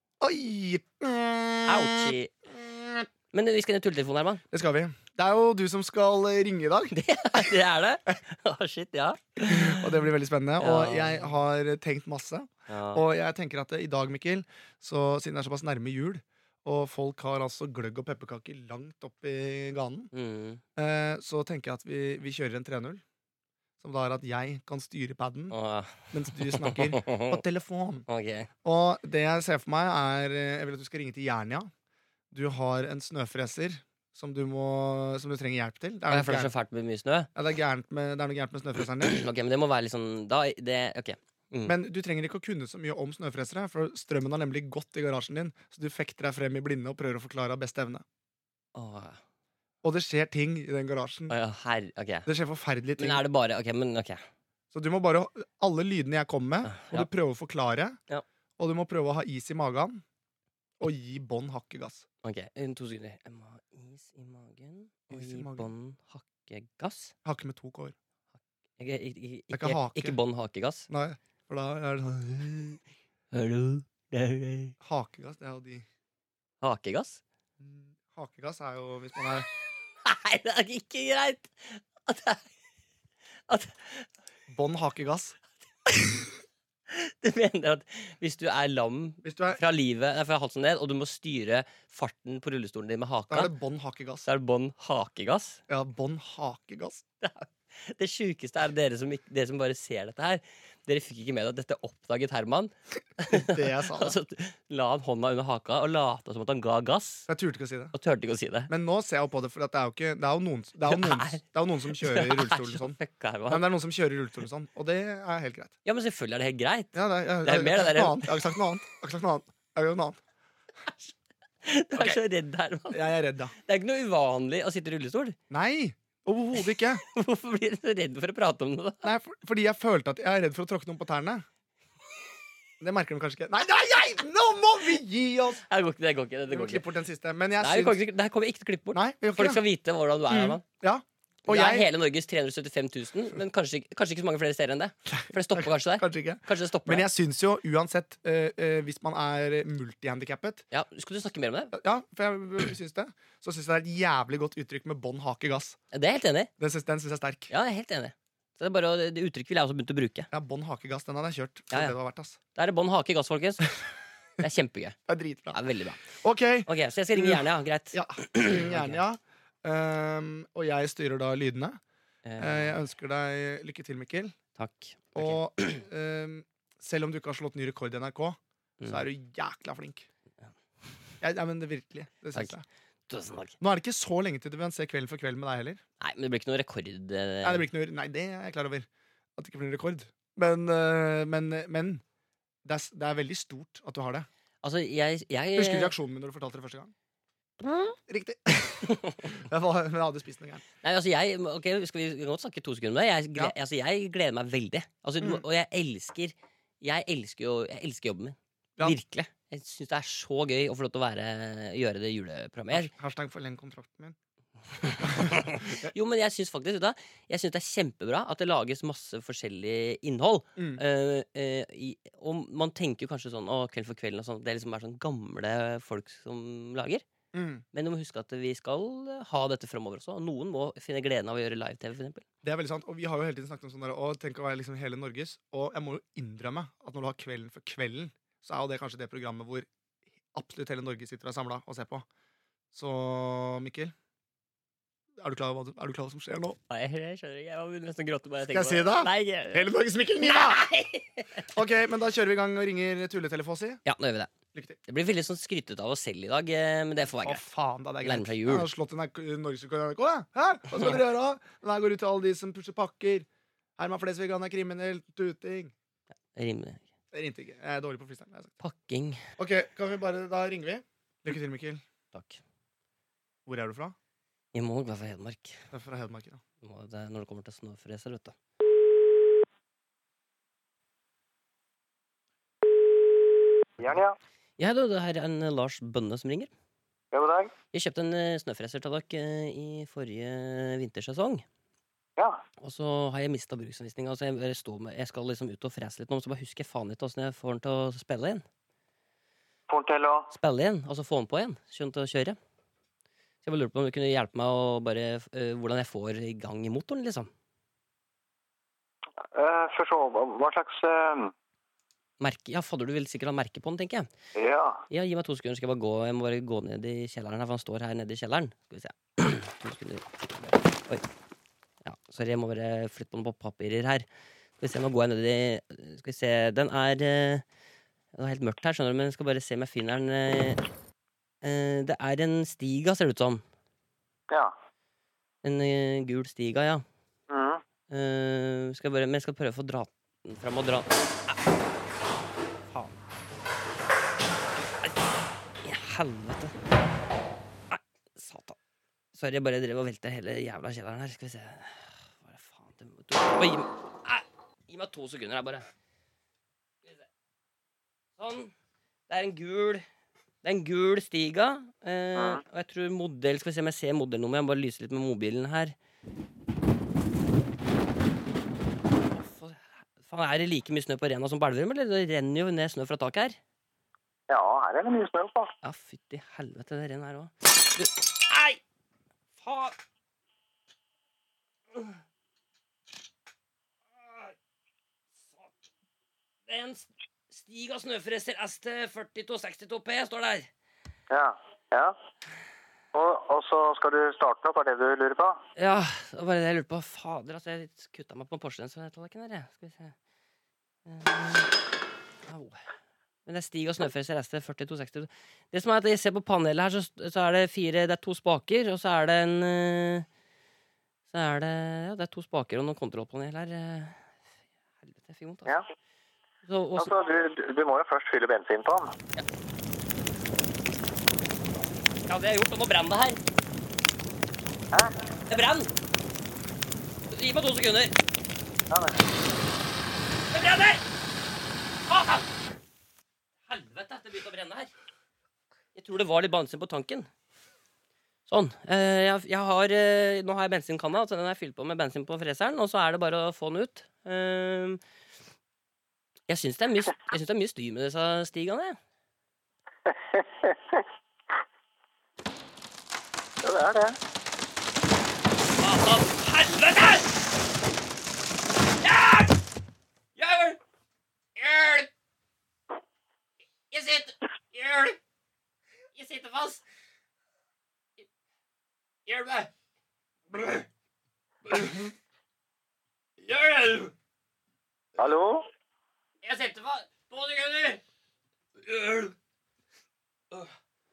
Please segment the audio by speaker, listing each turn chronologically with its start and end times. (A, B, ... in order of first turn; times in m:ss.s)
0:00.2-0:03.0 A
0:01.7-0:02.3 B
0:03.3-0:04.4 B
0:04.5-0:06.9 A
0:06.9-0:10.0 B
0:09.4-0:20.1 A
0:10.6-0:11.3 B
0:12.7-0:13.0 B
0:20.1-0:20.6 B
0:20.8-0:23.0 A
0:23.8-0:25.6 A
0:25.5-0:27.4 B
0:26.1-0:28.1 A
0:28.1-0:28.5 B
0:28.6-0:31.7 A
0:32.3-0:36.5 A
0:36.1-0:37.3 B
0:37.4-0:39.2 A
0:39.1-0:41.8 B
0:41.7-0:48.0 A
0:48.8-0:49.2 B
0:49.8-0:51.3 A
0:51.3-0:52.3 B
0:52.3-0:53.2 A
0:53.0-0:54.2 B
0:54.7-0:58.0 A
0:56.7-0:57.1 B
0:58.6-1:00.0 A
1:00.8-1:02.1 A
1:02.2-1:07.1 B
1:05.1-1:05.7 A
1:07.2-1:08.0 A
1:08.8-1:10.9 B
1:09.5-1:10.2 A
1:10.9-1:12.8 A
1:13.3-1:14.7 B
1:14.8-1:15.9 A
1:16.6-1:17.2 B
1:17.6-1:19.5 A
1:20.0-1:22.5 B
1:23.5-1:24.1 B
1:24.5-1:25.4 A
1:25.9-1:26.3 B
1:26.9-1:33.5 B
1:29.2-1:29.6 A
1:33.3-1:34.3 A
1:34.3-1:35.6 B
1:35.7-1:37.0 A
1:37.2-1:47.3 B
1:43.3-1:44.2 A
1:47.3-1:47.9 A
1:47.9-1:48.7 B
1:48.7-1:55.8 A
1:50.8-1:53.6 B
1:55.9-1:58.6 B
1:56.9-2:00.2 A
2:01.6-2:03.0 B
2:02.9-2:03.5 A
2:03.6-2:05.4 B
2:05.5-2:07.0 A
2:07.1-2:09.1 B
2:09.0-2:11.4 A
2:12.8-2:15.6 A
2:15.7-2:16.8 B
2:16.5-2:18.0 A
2:17.6-2:20.6 B
2:18.9-2:19.6 A
2:20.3-2:21.9 A
2:21.5-2:27.1 B
2:25.1-2:30.6 A
2:30.7-2:31.7 B
2:31.7-2:35.8 A
2:35.9-2:36.5 B
2:36.6-2:37.5 A
2:37.5-2:40.3 B
2:40.3-2:42.4 A
2:42.6-2:43.7 B
2:44.4-2:45.0 B
2:45.1-2:51.8 A
2:45.5-2:46.0 B
2:46.7-2:49.0 B
2:52.2-2:52.7 B
2:52.4-2:54.4 A
2:54.6-2:55.8 B
2:55.2-3:00.1 A
2:58.8-2:59.1 B
3:01.2-3:02.6 A
3:03.1-3:03.6 B
3:03.6-3:05.8 A
3:06.0-3:07.7 B
3:07.4-3:12.0 A
3:12.6-3:14.3 A
3:14.6-3:15.9 B
3:15.6-3:16.9 A
3:18.1-3:20.6 A
3:18.9-3:19.2 B
3:20.8-3:32.9 B
3:32.7-3:34.2 A
3:34.8-3:47.0 B
3:35.0-3:35.9 A
3:40.6-3:40.8 A
3:47.3-3:47.6 A
3:47.7-3:52.2 B
3:52.4-3:59.7 A
4:00.3-4:02.1 A
4:02.7-4:03.9 A
4:05.2-4:06.6 A
4:06.7-4:09.7 B
4:08.5-4:10.6 A
4:10.2-4:11.5 B
4:11.5-4:13.8 A
4:13.9-4:14.3 B
4:14.5-4:14.8 A
4:14.9-4:17.4 B
4:17.2-4:23.3 A
4:18.0-4:18.7 B
4:23.8-4:25.7 A
4:26.3-4:26.8 B
4:27.1-4:28.5 A
4:28.6-4:29.2 B
4:29.4-4:31.8 A
4:32.1-4:32.4 B
4:33.5-4:34.0 A
4:34.5-4:35.6 B
4:35.7-4:36.4 A
4:36.6-4:38.4 B
4:43.8-4:44.2 C
4:44.6-4:46.5 B
4:47.1-4:47.5 C
4:47.7-4:51.4 B
4:52.6-4:58.4 B
4:59.7-5:00.3 C
5:00.3-5:02.4 B
5:03.4-5:07.3 B
5:09.3-5:11.3 C
5:12.2-5:14.1 B
5:14.4-5:14.8 C
5:14.9-5:21.1 B
5:21.8-5:24.1 B
5:24.6-5:27.4 B
5:28.2-5:30.6 B
5:31.4-5:33.4 B
5:35.4-5:36.8 B
5:37.3-5:37.6 C
5:37.9-5:41.4 B
5:42.7-5:43.0 B
5:45.6-5:46.6 B
5:47.7-5:48.6 B
5:49.1-5:55.7 B
5:58.2-5:58.5 B
5:59.1-5:59.8 B
6:00.4-6:05.8 B
6:02.2-6:02.4 C
6:09.1-6:13.4 B
6:14.3-6:15.5 C
6:15.6-6:18.6 B
6:19.4-6:19.8 B
6:24.0-6:24.3 B
6:26.5-6:30.5 B
6:31.1-6:32.0 C
6:32.9-6:35.4 C
6:35.6-6:39.9 B
6:40.9-6:41.5 B
6:42.3-6:42.6 B
6:43.3-6:50.1 B
6:51.1-6:54.0 B
6:54.8-6:55.6 B
6:56.4-6:57.0 B
6:56.8-6:58.9 C
7:02.1-7:03.2 B
7:04.7-7:05.0 C
7:05.3-7:05.7 B
7:07.1-7:08.0 B
7:08.7-7:09.0 C
7:10.3-7:10.8 B
7:11.9-7:12.3 B
7:13.5-7:14.7 B
7:15.8-7:17.1 B
7:18.3-7:24.8 B
7:26.3-7:28.8 B
7:29.9-7:30.8 C
7:33.4-7:34.0 C
7:35.6-7:37.3 B
7:38.8-7:39.4 B
7:40.2-7:40.6 B
7:41.4-7:41.9 B
7:43.7-7:45.0 B
7:46.0-7:46.6 B
7:49.1-7:49.5 B
7:50.3-7:50.6 B
7:51.5-7:51.8 B
7:53.2-7:53.9 B
7:55.0-7:55.5 C
7:56.2-7:57.8 B
7:58.6-7:59.1 B